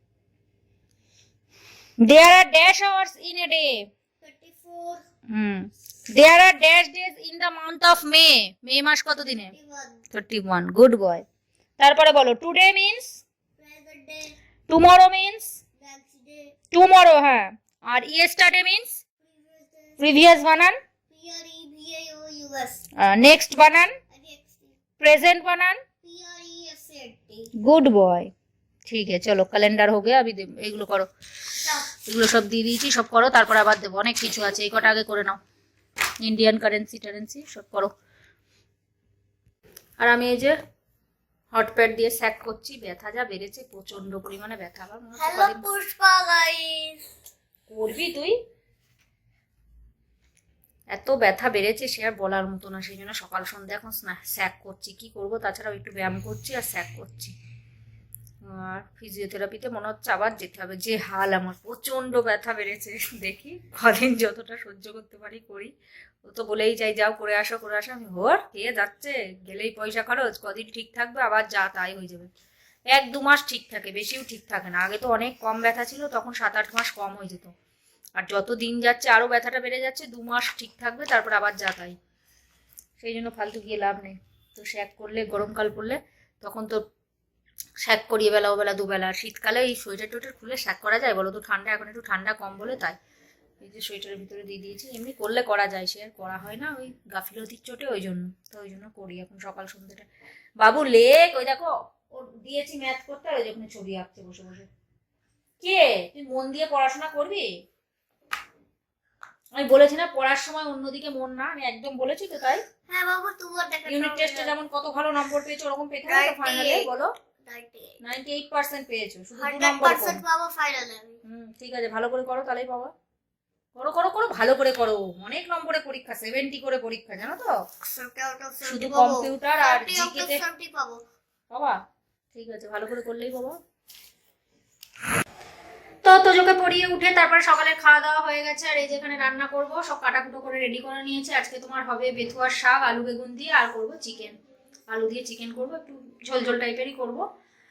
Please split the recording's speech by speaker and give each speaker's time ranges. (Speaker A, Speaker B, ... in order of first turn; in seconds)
Speaker A: 2.0-3.9, 5.3-9.5, 10.1-11.2, 11.8-13.2, 14.7-15.6, 16.7-19.0, 20.0-20.8, 23.0-23.9, 25.0-25.8, 27.6-28.3, 28.9-31.1, 32.0-35.4, 36.2-37.9, 40.0-40.5, 41.5-45.6, 47.7-48.4, 50.9-57.3, 58.4-65.7, 66.2-72.3, 72.9-77.5, 78.2-82.0, 83.0-86.8, 87.8-93.0, 93.6-100.0, 100.6-104.7, 105.6-107.5, 109.5-112.6, 113.9-117.1, 118.0-120.2, 121.2-122.9, 123.8-127.5, 128.6-130.4, 131.5-131.8, 132.3-133.6, 136.0-144.3, 144.9-147.2
Speaker B: 4.2-5.0, 9.5-10.0, 13.6-14.3, 15.8-16.5, 19.2-20.3, 21.1-22.8, 24.1-24.8, 26.0-27.5, 45.2-47.1, 112.9-114.5, 116.1-116.9, 117.4-118.0, 119.4-121.2, 127.8-131.0